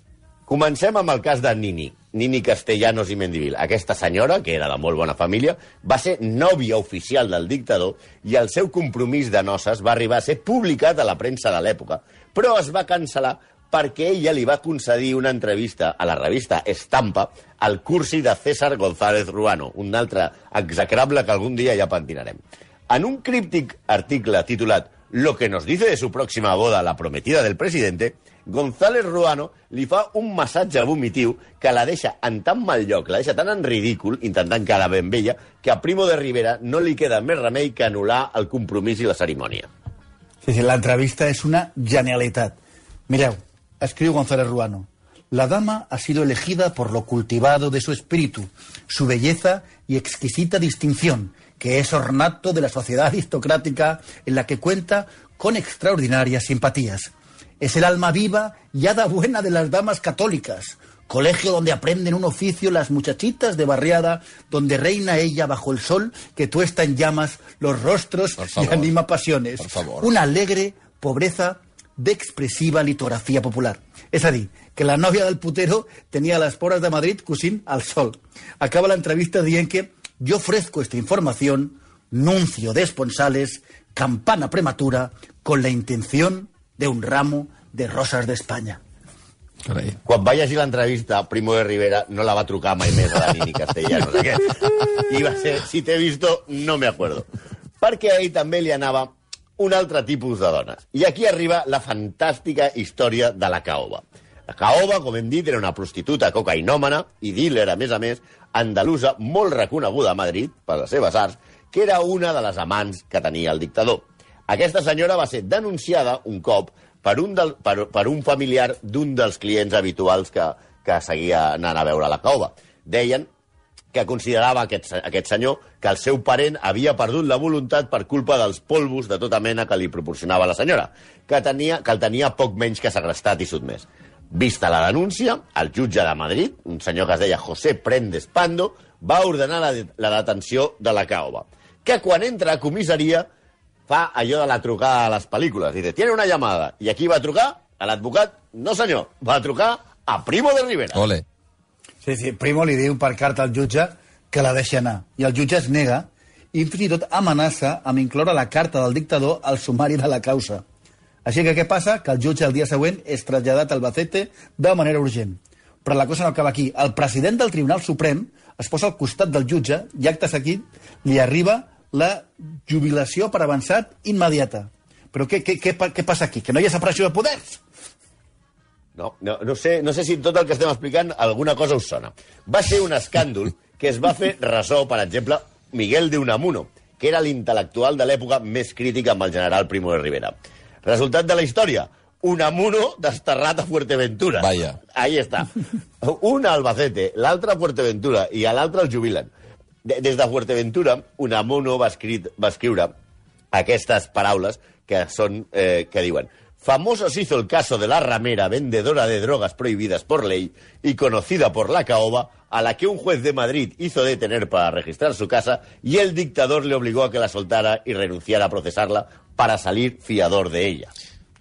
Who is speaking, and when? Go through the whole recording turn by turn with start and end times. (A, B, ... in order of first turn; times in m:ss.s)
0:00.5-0:39.7 A
0:40.4-0:42.6 B
0:43.1-1:28.8 B
1:08.4-1:08.9 C
1:09.6-1:10.1 C
1:29.6-1:30.0 C
1:30.0-1:37.3 A
1:37.8-2:03.3 A
2:03.9-2:23.3 A
2:23.9-2:31.0 A
2:30.9-2:31.2 C
2:32.0-2:40.6 B
2:41.2-2:57.6 B
2:59.0-3:10.3 A
3:10.8-3:19.3 A
3:14.4-3:14.8 C
3:19.8-3:22.9 A
3:23.5-3:40.9 A